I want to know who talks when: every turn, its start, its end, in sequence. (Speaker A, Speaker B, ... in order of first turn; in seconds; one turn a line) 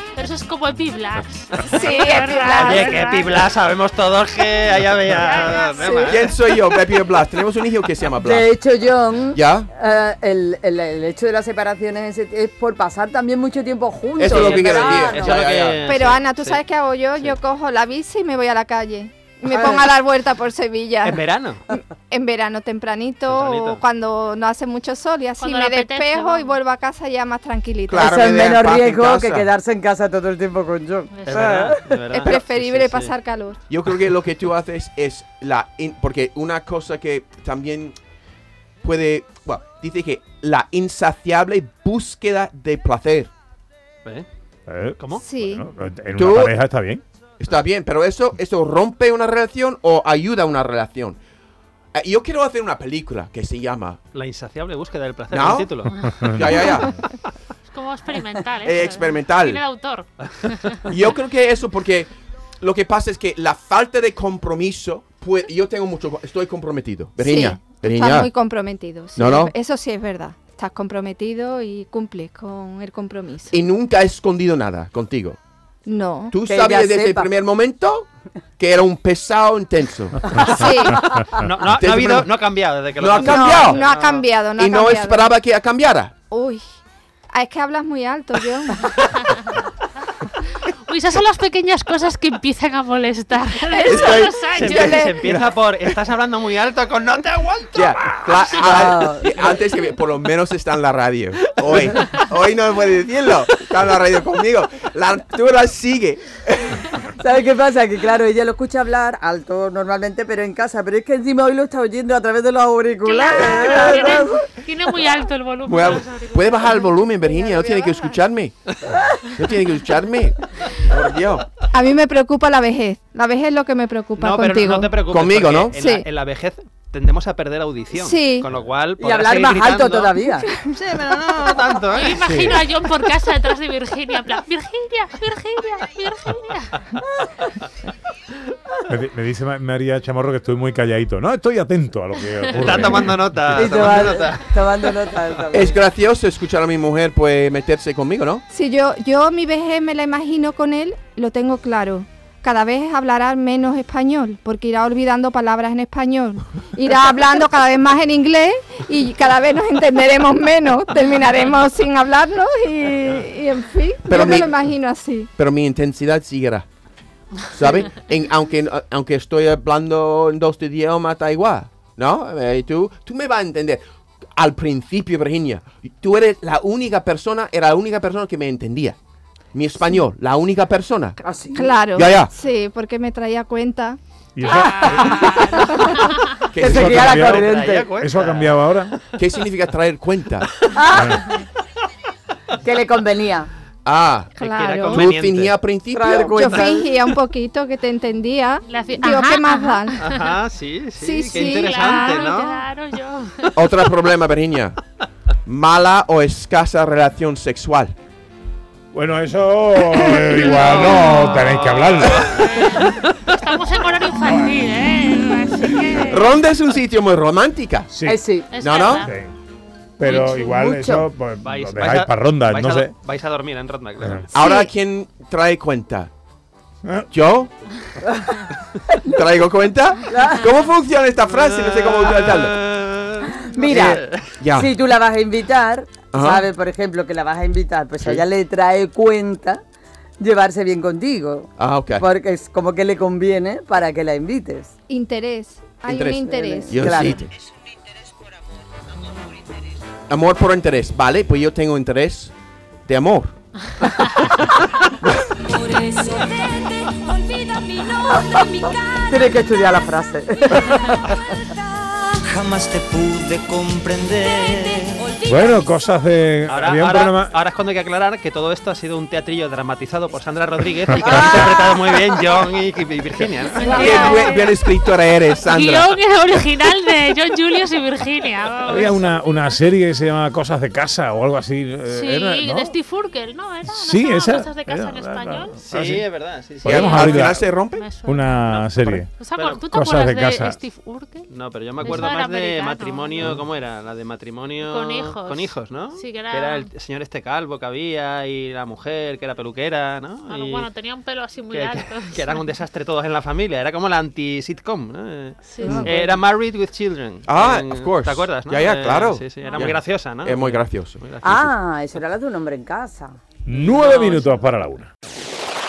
Speaker A: 0.2-3.5
Speaker B: 1.7-3.0
Speaker C: 2.6-6.3
Speaker A: 5.1-6.2
Speaker D: 6.0-8.5
Speaker E: 8.2-15.4
Speaker D: 9.3-9.7
Speaker D: 14.2-15.8
Speaker C: 14.3-16.6
Speaker B: 15.9-28.2
Speaker E: 19.5-19.9
Speaker C: 21.0-21.6
Speaker C: 23.3-23.8
Speaker A: 25.4-26.6
Speaker D: 27.9-29.5
Speaker E: 28.0-31.9
Speaker A: 31.1-31.4
Speaker C: 31.2-33.1
Speaker B: 32.1-33.6
Speaker D: 33.7-38.0
Speaker D: 38.8-43.3
Speaker F: 44.7-47.0
Speaker B: 45.2-45.7
Speaker D: 46.2-46.5
Speaker D: 47.4-51.2
Speaker D: 52.0-54.0
Speaker C: 54.1-56.0
Speaker D: 55.3-55.7
Speaker D: 56.3-56.9
Speaker A: 57.7-60.9
Speaker D: 58.6-59.6
Speaker C: 60.4-60.7
Speaker D: 60.9-62.1
Speaker D: 62.6-68.3
Speaker B: 67.2-73.5
Speaker D: 69.2-69.5
Speaker D: 73.5-75.4
Speaker B: 75.8-76.3
Speaker D: 76.3-80.3
Speaker E: 76.5-77.3
Speaker B: 80.4-81.0
Speaker C: 81.3-84.2
Speaker D: 81.6-82.3
Speaker D: 83.0-83.8
Speaker B: 83.1-85.3
Speaker D: 84.6-86.1
Speaker B: 86.3-86.6
Speaker B: 87.3-89.0
Speaker A: 89.2-89.6
Speaker A: 90.9-95.1
Speaker B: 93.7-95.3
Speaker C: 93.9-98.4
Speaker D: 93.9-95.5
Speaker D: 97.7-106.9
Speaker E: 98.5-99.5
Speaker E: 107.2-114.5
Speaker A: 113.0-116.8
Speaker D: 115.7-118.6
Speaker B: 117.2-118.2
Speaker D: 119.2-121.5
Speaker B: 121.7-124.9
Speaker C: 124.2-132.4
Speaker D: 125.1-125.8
Speaker B: 125.8-126.1
Speaker B: 127.9-128.5
Speaker E: 129.0-130.5
Speaker A: 131.9-136.8
Speaker F: 132.3-132.7
Speaker F: 138.9-143.9
Speaker C: 142.6-145.0
Speaker E: 143.5-145.8
Speaker D: 145.5-148.4
Speaker B: 148.5-165.3
Speaker D: 164.1-164.6
Speaker D: 165.4-166.7
Speaker D: 167.5-173.8
Speaker D: 174.4-179.0
Speaker D: 179.5-181.2
Speaker E: 181.2-181.8
Speaker B: 181.6-184.0
Speaker D: 181.9-182.3
Speaker F: 184.4-185.2
Speaker A: 184.4-186.5
Speaker E: 184.5-185.6
Speaker B: 185.3-186.1
Speaker D: 186.5-187.3
Speaker E: 186.6-187.9
Speaker F: 186.6-189.0
Speaker C: 187.1-188.7
Speaker D: 189.1-190.5
Speaker E: 190.7-191.3
Speaker F: 190.9-191.3
Speaker E: 192.6-193.5
Speaker D: 193.8-194.3
Speaker B: 194.4-195.1
Speaker C: 194.4-195.5
Speaker D: 194.9-196.6
Speaker E: 195.9-196.9
Speaker B: 196.1-200.1
Speaker A: 198.7-200.3
Speaker C: 200.0-202.6
Speaker B: 201.0-202.4
Speaker A: 201.5-203.7
Speaker D: 203.6-204.8
Speaker D: 205.5-207.9
Speaker F: 208.9-212.6
Speaker A: 210.4-211.3
Speaker C: 210.5-213.0
Speaker A: 212.6-216.3
Speaker F: 214.3-214.6
Speaker D: 216.1-217.9
Speaker F: 217.9-218.3
Speaker E: 218.1-218.5
Speaker A: 218.5-219.1
Speaker D: 218.6-219.1
Speaker F: 219.0-219.3
Speaker F: 220.0-222.9
Speaker C: 220.1-220.3
Speaker E: 220.1-221.1
Speaker C: 221.4-224.3
Speaker F: 224.0-224.3
Speaker B: 224.3-224.7
Speaker D: 224.3-226.1
Speaker D: 227.1-227.5
Speaker E: 228.1-229.0
Speaker D: 229.0-232.6
Speaker E: 230.1-230.5
Speaker C: 231.4-234.2
Speaker E: 233.2-234.0
Speaker D: 233.7-234.7
Speaker E: 234.5-239.6
Speaker D: 236.1-236.5
Speaker D: 238.0-238.2
Speaker E: 240.2-244.7
Speaker D: 241.6-242.1
Speaker B: 244.9-246.8
Speaker D: 245.9-247.3
Speaker E: 246.2-247.2
Speaker D: 250.1-252.3
Speaker D: 252.9-253.4
Speaker E: 259.1-261.2
Speaker G: 262.3-265.1
Speaker F: 265.2-267.3
Speaker C: 266.5-274.1
Speaker F: 271.0-271.5
Speaker D: 273.6-276.0
Speaker A: 273.8-274.3
Speaker A: 275.5-279.0
Speaker F: 278.7-282.8
Speaker A: 281.9-285.6
Speaker F: 283.6-286.1
Speaker C: 285.6-287.1
Speaker F: 286.6-289.1
Speaker A: 286.7-287.1
Speaker D: 286.7-287.9
Speaker A: 287.6-291.3
Speaker C: 288.5-289.7
Speaker F: 289.7-290.6
Speaker C: 291.3-300.7
Speaker A: 291.8-293.4
Speaker A: 294.6-296.7
Speaker A: 300.3-302.5
Speaker C: 301.5-311.5
Speaker A: 305.5-305.9
Speaker E: 305.6-306.2
Speaker D: 307.3-311.1
Speaker A: 309.4-309.7
Speaker E: 311.2-313.2
Speaker F: 313.5-314.9
Speaker C: 313.5-314.2